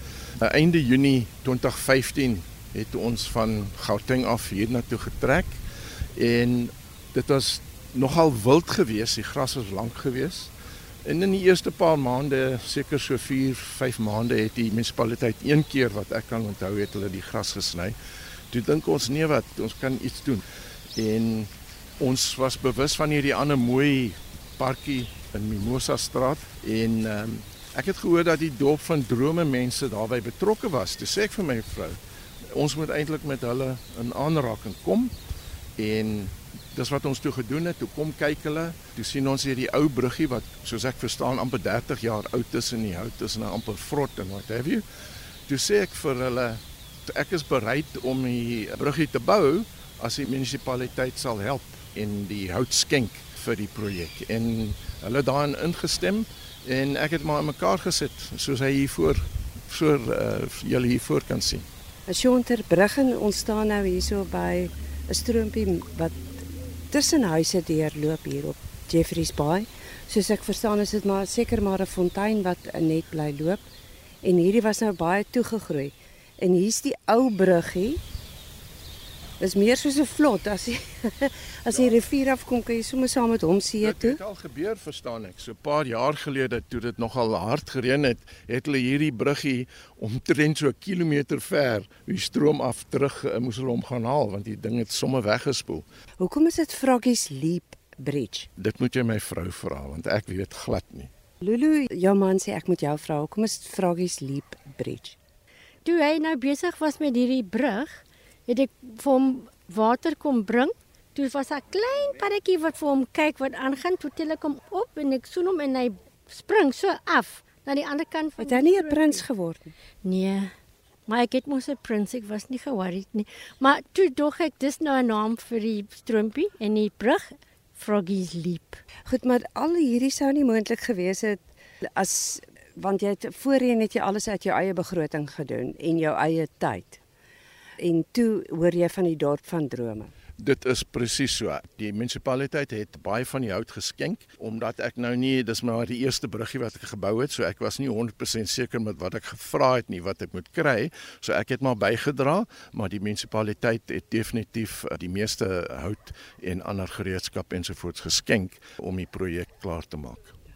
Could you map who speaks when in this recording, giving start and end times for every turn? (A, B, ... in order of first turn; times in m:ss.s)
0:00.4-0:05.6 A
0:06.2-0:10.5 A
0:11.0-0:18.0 A
0:18.5-0:20.4 A
0:21.0-0:32.0 A
0:32.5-0:35.1 A
0:35.8-0:44.8 A
0:45.5-1:01.6 A
1:02.1-1:13.6 B
1:14.2-1:18.0 B
1:19.4-1:24.2 B
1:23.8-1:35.8 A
1:36.2-1:38.5 B
1:38.6-1:41.1 A
1:41.4-1:45.2 B
1:45.8-1:59.2 C
1:58.4-1:59.7 B
2:00.0-2:00.5 C
2:01.1-2:08.8 C
2:09.0-2:17.0 B
2:17.8-2:20.1 B
2:20.4-2:40.4 A